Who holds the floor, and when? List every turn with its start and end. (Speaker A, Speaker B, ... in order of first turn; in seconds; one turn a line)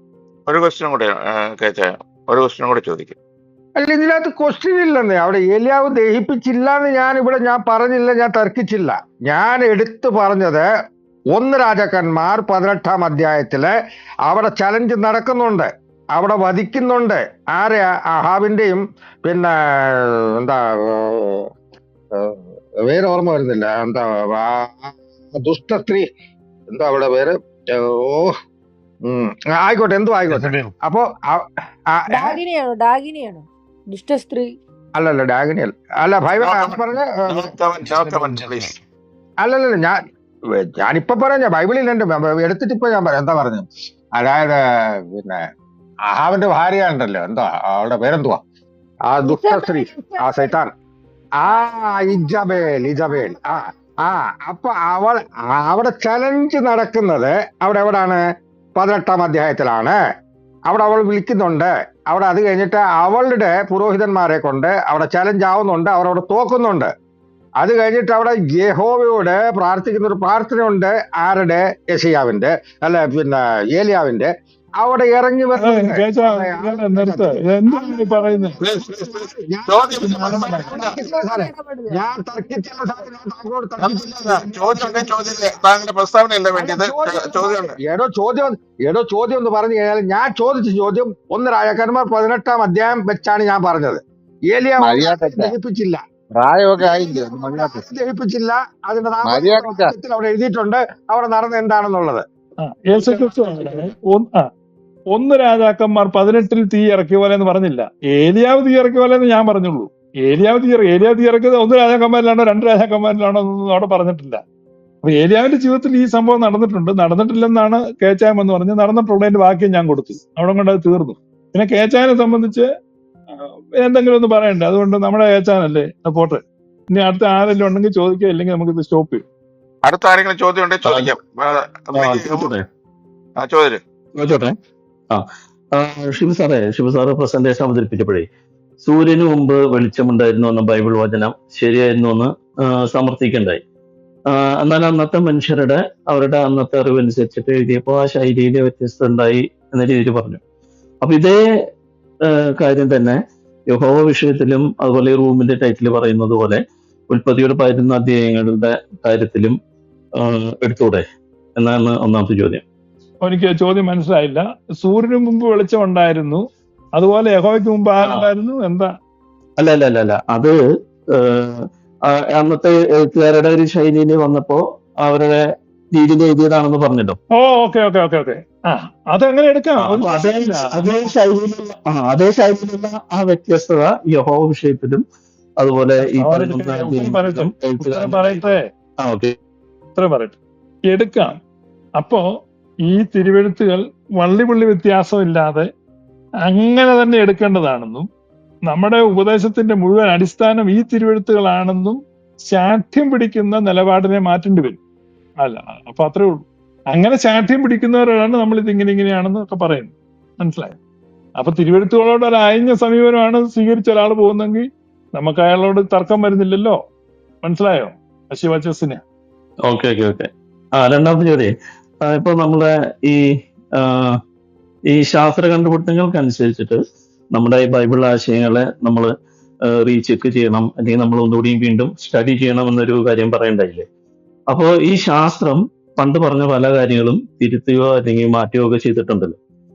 Speaker A: 0.5-3.1
Speaker B: 3.8-10.7
Speaker B: 11.3-13.7
Speaker B: 14.3-21.5
Speaker B: 22.1-26.1
Speaker B: 26.7-28.3
Speaker B: 29.1-32.4
Speaker C: 30.3-30.7
Speaker D: 32.1-34.5
Speaker B: 35.0-37.5
Speaker A: 36.4-38.7
Speaker B: 39.4-40.0
Speaker B: 40.5-45.4
Speaker B: 46.1-48.4
Speaker B: 49.1-50.7
Speaker D: 49.2-50.5
Speaker B: 51.4-58.2
Speaker D: 51.4-53.5
Speaker B: 58.8-60.0
Speaker B: 60.7-66.9
Speaker B: 67.6-85.1
Speaker E: 75.6-78.5
Speaker A: 78.6-80.9
Speaker E: 80.0-80.7
Speaker D: 80.7-82.0
Speaker A: 83.8-87.7
Speaker B: 86.5-96.0
Speaker C: 94.8-95.5
Speaker C: 96.3-97.8
Speaker B: 96.8-102.2
Speaker C: 99.2-100.0
Speaker E: 102.6-104.4
Speaker E: 105.1-114.4
Speaker E: 115.0-122.7
Speaker E: 123.4-129.2
Speaker A: 129.8-132.5
Speaker F: 130.8-131.1
Speaker F: 131.9-132.7
Speaker A: 133.4-133.8
Speaker F: 134.2-134.5
Speaker F: 135.1-138.3
Speaker F: 138.8-143.6
Speaker F: 144.3-150.4
Speaker F: 151.0-151.7
Speaker F: 152.2-153.2
Speaker F: 153.7-159.6
Speaker F: 160.2-161.0
Speaker F: 161.6-162.6
Speaker E: 163.2-166.4
Speaker E: 167.0-168.9
Speaker F: 168.0-168.2
Speaker F: 169.6-170.6
Speaker F: 171.1-177.2
Speaker E: 177.3-180.7
Speaker F: 179.8-185.0
Speaker F: 185.6-188.3
Speaker E: 186.0-188.6
Speaker F: 189.0-189.3
Speaker E: 189.9-190.4
Speaker E: 190.9-191.4
Speaker E: 192.0-192.2
Speaker E: 192.9-195.7
Speaker E: 196.4-198.1
Speaker E: 198.7-204.8
Speaker E: 205.4-210.7
Speaker E: 211.4-216.8
Speaker E: 217.4-219.0
Speaker F: 219.6-224.2
Speaker F: 224.9-226.8
Speaker F: 227.3-229.1
Speaker F: 229.6-233.9
Speaker F: 234.5-239.3